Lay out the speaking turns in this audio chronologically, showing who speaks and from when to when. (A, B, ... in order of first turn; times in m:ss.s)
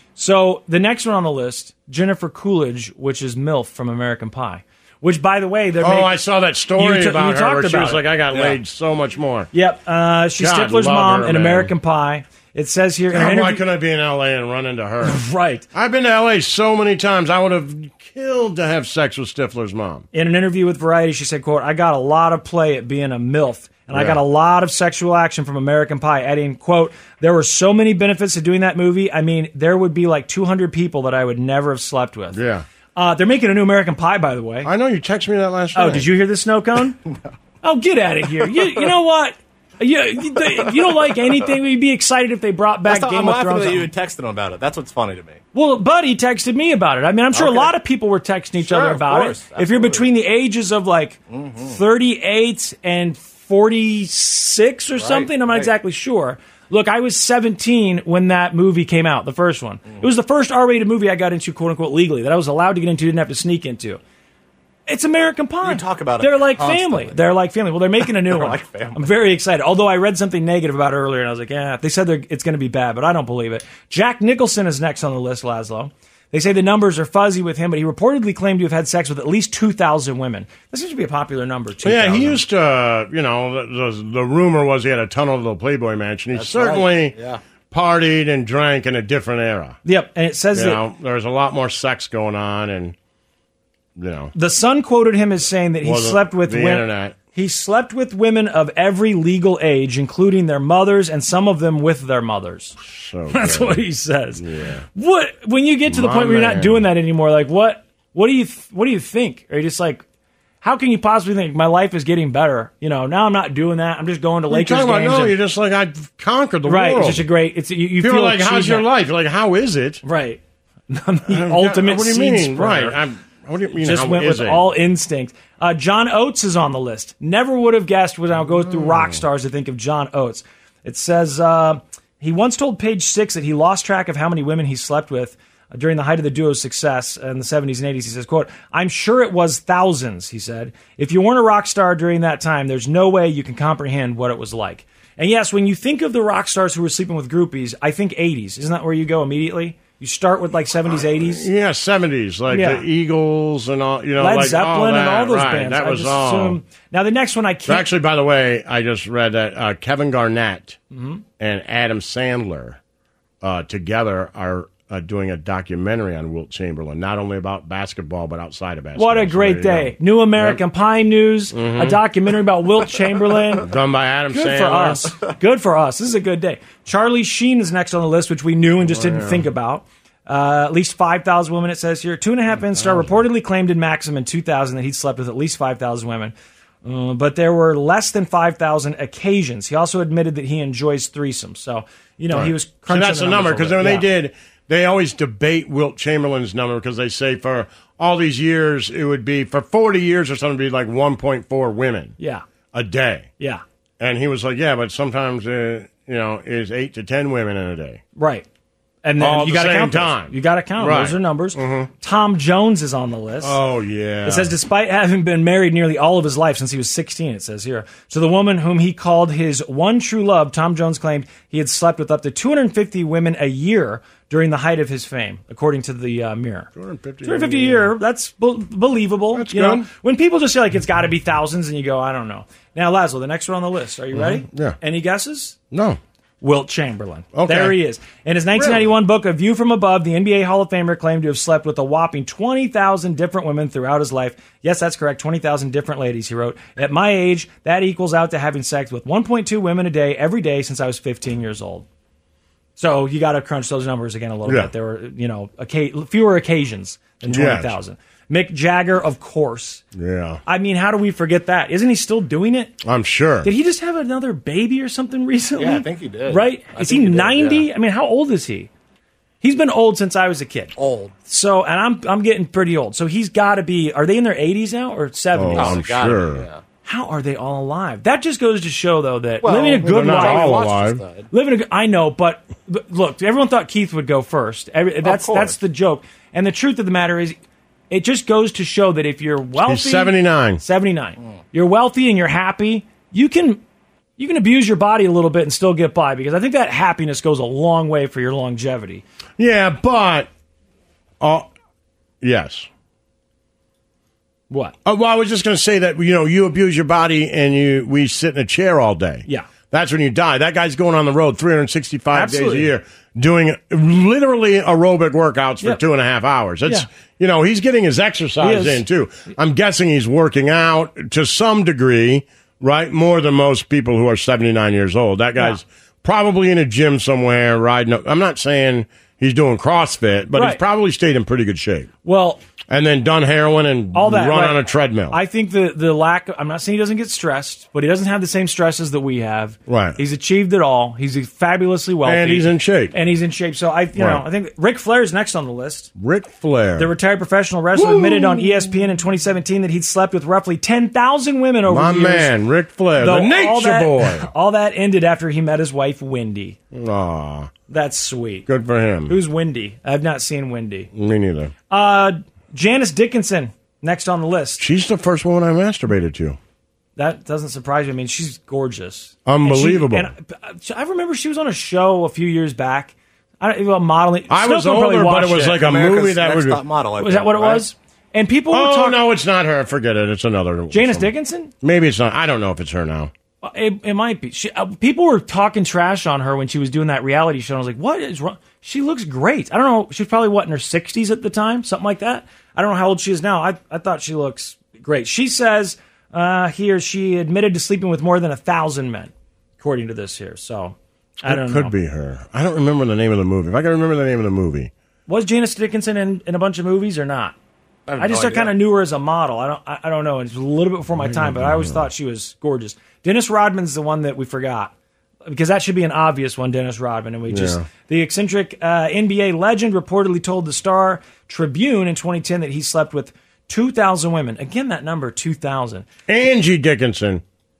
0:00.2-0:06.2 A
0:05.8-0:09.5 B
0:06.8-0:08.2 A
0:09.5-0:13.6 A
0:10.4-0:11.7 B
0:13.1-0:15.2 B
0:15.0-0:15.7 A
0:15.7-0:20.1 B
0:20.1-0:32.4 A
0:23.9-0:24.2 B
0:32.3-0:32.7 B
0:33.0-0:34.7 A
0:34.6-0:36.1 B
0:35.8-0:37.0 A
0:37.6-0:43.9 A
0:42.8-0:45.4 C
0:45.5-1:04.0 A
0:47.3-0:47.7 C
0:48.6-0:50.1 C
0:51.3-0:51.8 C
0:55.0-0:55.7 C
1:04.9-1:22.4 A
1:05.6-1:07.2 C
1:08.0-1:09.1 C
1:21.8-1:27.2 B
1:26.3-1:27.4 C
1:27.7-1:29.8 B
1:29.8-1:30.8 A
1:30.5-1:33.0 B
1:34.0-1:34.3 B
1:34.3-1:42.8 A
1:35.8-1:37.2 B
1:42.8-1:43.8 B
1:43.3-1:44.4 A
1:44.4-1:44.8 B
1:45.0-1:50.0 A
1:45.9-1:46.8 B
1:50.6-1:55.4 A
1:54.5-1:57.3 B
1:56.7-1:58.9 A
1:58.0-2:00.0 B
2:00.0-2:03.0 A
2:01.3-2:04.7 B
2:03.8-2:31.5 A
2:08.5-2:09.2 B
2:31.0-2:36.6 B
2:32.5-2:32.8 A
2:34.2-2:37.9 A
2:37.7-2:40.8 B
2:40.9-2:41.2 A
2:41.4-2:42.8 B
2:43.4-2:50.6 B
2:49.0-2:53.7 A
2:51.5-2:52.0 B
2:53.6-2:55.1 B
2:54.3-3:14.1 A
2:58.8-2:59.4 B
3:02.6-3:03.2 B
3:12.3-3:22.2 B
3:22.2-3:22.4 A
3:22.7-3:23.3 B
3:24.0-3:28.0 B
3:28.2-3:28.5 A
3:29.0-3:33.6 A
3:29.2-3:31.9 B
3:33.4-3:34.5 B
3:34.2-3:46.7 A
3:46.8-3:47.9 B
3:47.2-3:55.6 A
3:49.3-3:49.9 B
3:54.1-3:54.8 B
3:55.7-3:56.0 B
3:56.4-4:11.9 A
3:57.3-3:57.8 B
3:58.6-3:58.9 B
4:12.8-4:19.8 A
4:14.5-4:14.7 B
4:17.2-4:17.8 B
4:19.9-4:20.4 B
4:20.5-4:22.8 A
4:22.8-4:23.5 B
4:23.4-4:28.7 A
4:25.6-4:27.7 C
4:29.4-4:30.7 A
4:30.8-4:31.1 C
4:31.3-4:36.0 A
4:35.3-4:36.5 B
4:35.6-4:36.6 C
4:36.8-4:40.7 A
4:39.4-4:41.3 C
4:39.8-4:41.0 B
4:41.3-4:47.4 A
4:45.0-4:45.6 C
4:47.9-4:53.6 A
4:49.6-4:50.6 B
4:54.2-4:59.0 A
4:59.4-5:00.3 B
5:01.2-5:01.5 B
5:02.2-5:02.7 B
5:04.5-5:04.8 A
5:04.8-5:31.9 B
5:12.1-5:12.7 A
5:18.4-5:18.8 A
5:30.3-5:30.6 A
5:32.0-5:32.4 A
5:32.7-5:35.2 B
5:33.9-5:45.9 A
5:39.7-5:40.0 B
5:42.0-5:42.9 B
5:44.0-5:44.2 B
5:46.0-5:46.9 B
5:46.8-5:52.3 A
5:47.8-5:48.7 B
5:51.7-5:54.3 B
5:53.0-5:56.6 A
5:56.7-5:57.5 B
5:57.7-5:58.5 A
5:58.5-5:59.2 B
5:59.1-6:00.9 A
6:00.9-6:01.5 B
6:01.7-6:04.6 A
6:04.6-6:06.4 B
6:07.0-6:15.7 A
6:09.3-6:10.1 B
6:14.3-6:16.6 B
6:15.6-6:17.7 C
6:17.0-6:19.0 A
6:18.5-6:21.1 B
6:20.7-6:21.5 A
6:21.6-6:23.1 B
6:23.4-6:41.7 A
6:41.2-6:44.7 B
6:45.1-6:47.4 A
6:47.9-6:48.6 C
6:48.0-6:54.7 A
6:51.0-6:51.9 B
6:55.3-7:05.9 A
6:57.3-6:57.7 B
7:06.1-7:07.2 B